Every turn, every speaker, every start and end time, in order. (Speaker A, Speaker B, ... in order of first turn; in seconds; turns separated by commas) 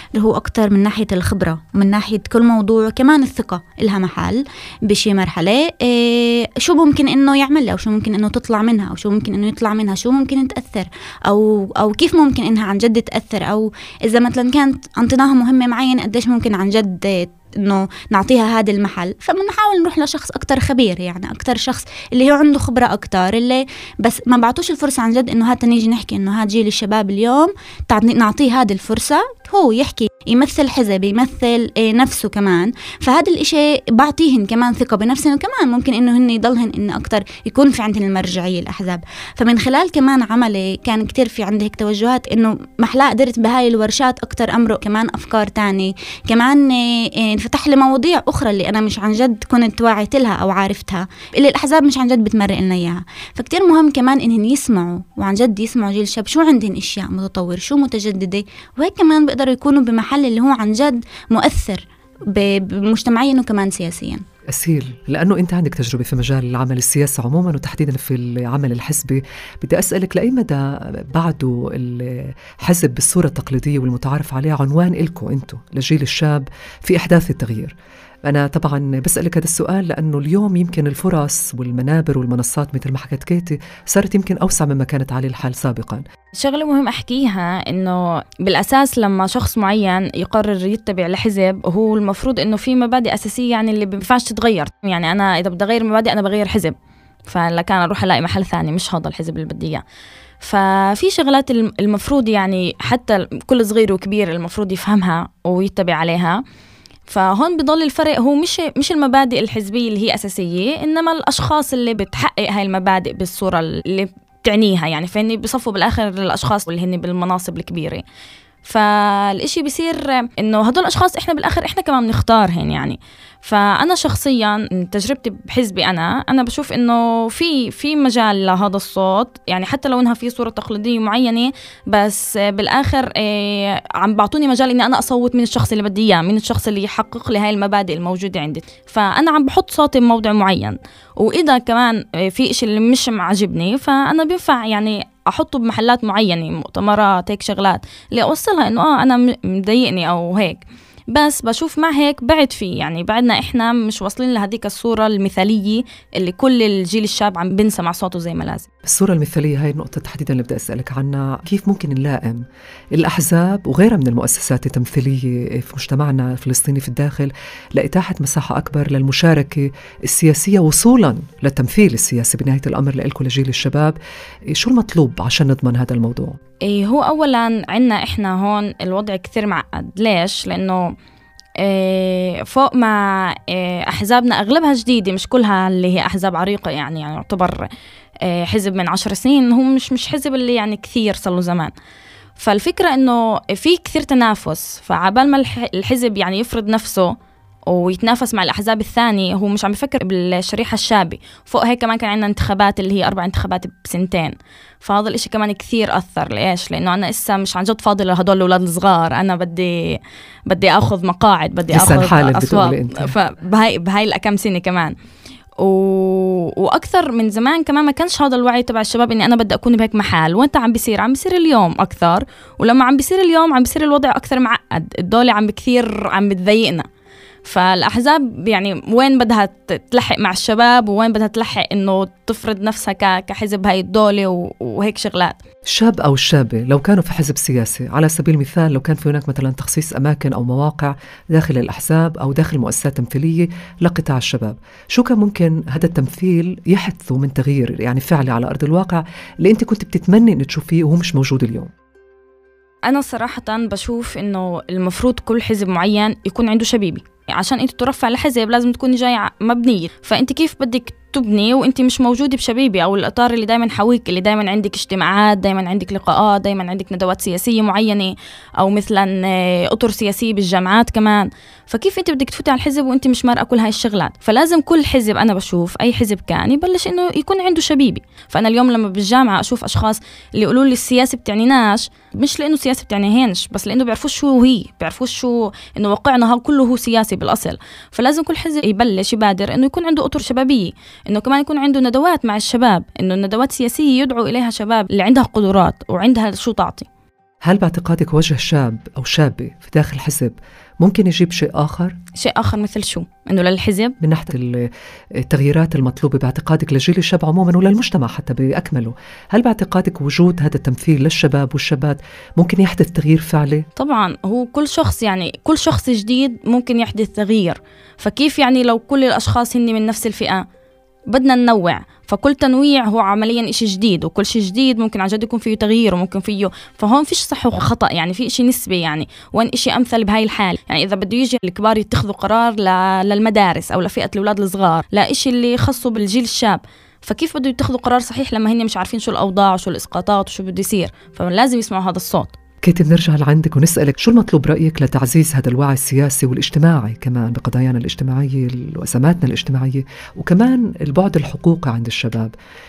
Speaker A: 0.1-64.2, Speaker B: 64.5-77.7, Speaker B: 78.2-86.0, Speaker C: 86.4-96.7, Speaker C: 97.3-99.8, Speaker C: 100.4-106.4, Speaker C: 107.1-118.0, Speaker C: 118.7-158.7, Speaker B: 158.9-162.4, Speaker B: 162.9-174.0, Speaker B: 174.5-176.4, Speaker C: 176.6-180.9, Speaker C: 181.6-187.7, Speaker C: 188.2-191.7, Speaker C: 192.4-197.1, Speaker C: 197.7-214.9, Speaker B: 211.7-213.2, Speaker C: 215.6-226.9, Speaker C: 227.4-235.4, Speaker B: 235.7-251.7, Speaker C: 252.9-296.9, Speaker B: 297.4-302.0, Speaker C: 302.2-303.9, Speaker B: 304.0-304.7, Speaker B: 305.2-313.6, Speaker C: 313.8-320.4, Speaker C: 321.1-342.3, Speaker B: 342.6-352.3